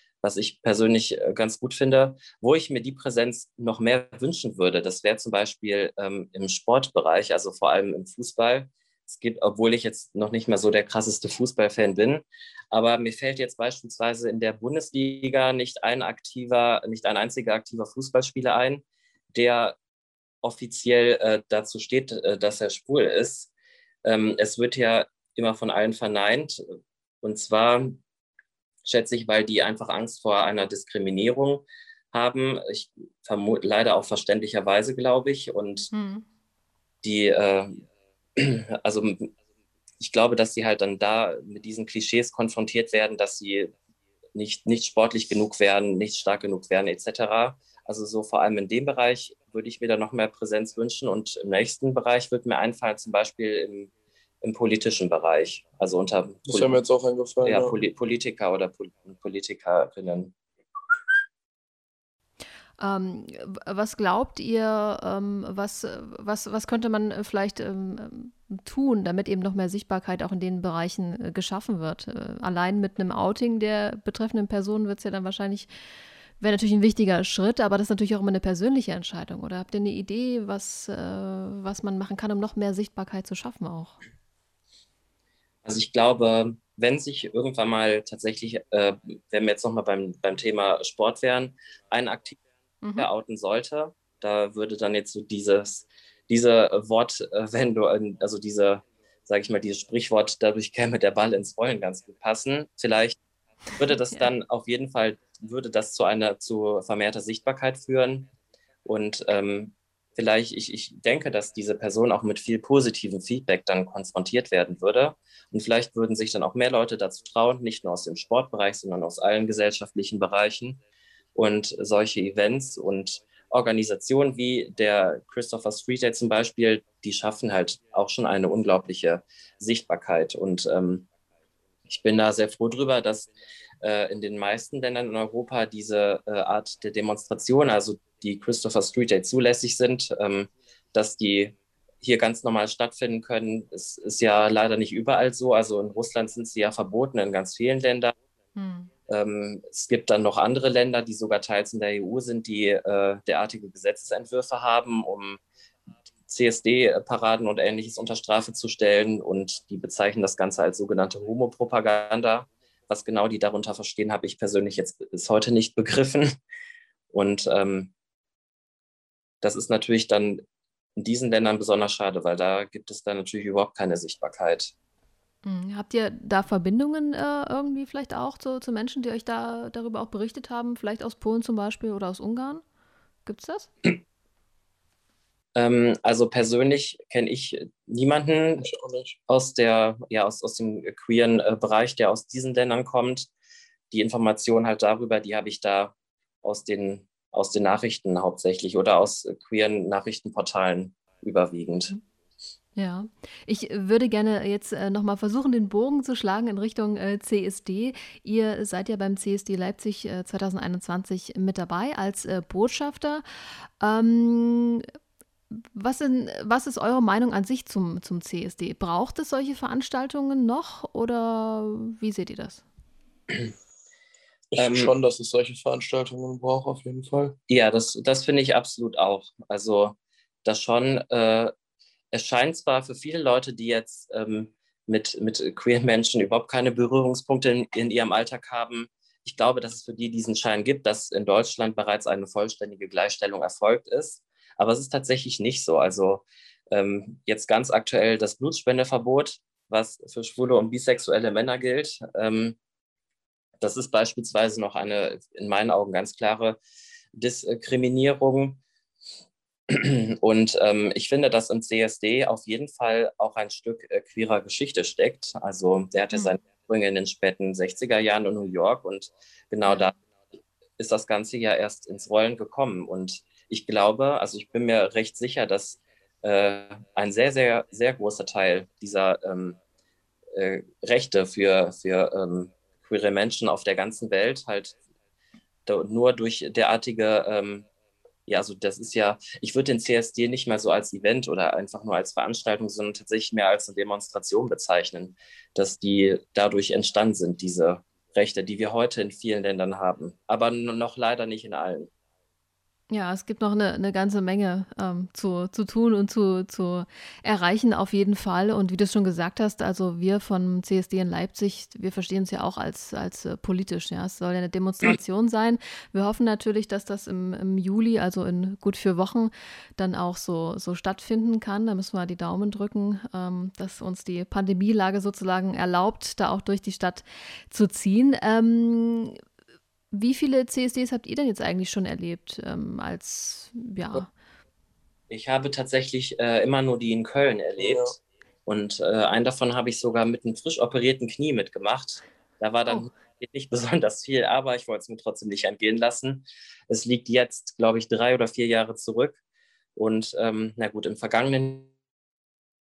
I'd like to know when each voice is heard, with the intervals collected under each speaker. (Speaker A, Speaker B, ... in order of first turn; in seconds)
Speaker A: 0.2-19.8, 20.4-23.5, 24.0-26.6, 27.2-28.0, 28.8-35.9, 37.0-37.9, 38.4-39.3, 40.0-43.7, 44.4-53.9, 54.4-56.8, 57.4-60.3, 85.7-92.4, 93.0-103.2, 103.8-108.3, 108.8-120.8, 121.3-131.1, 131.9-148.2, 149.1-155.4, 156.3-166.4, 167.1-167.9, 169.4-170.4, 171.0-174.7, 185.6-188.7, 189.3-193.3, 193.9-201.9, 224.6-224.9, 227.5-231.5, 232.1-252.6, 253.6-256.6, 257.1-258.6, 259.7-270.0, 270.8-279.6, 280.3-284.8, 285.7-287.6, 288.3-301.9, 335.1-349.2, 349.8-351.7
Speaker B: 35.9-36.2, 62.8-75.7, 76.4-84.0, 92.8-93.1, 148.6-148.9, 175.4-182.6, 183.3-183.7, 202.8-213.2, 213.8-214.9, 215.6-222.6, 269.6-269.9, 302.9-329.2, 329.9-334.1
Speaker C: 56.5-57.8, 188.6-189.2, 224.5-227.4, 337.6-338.0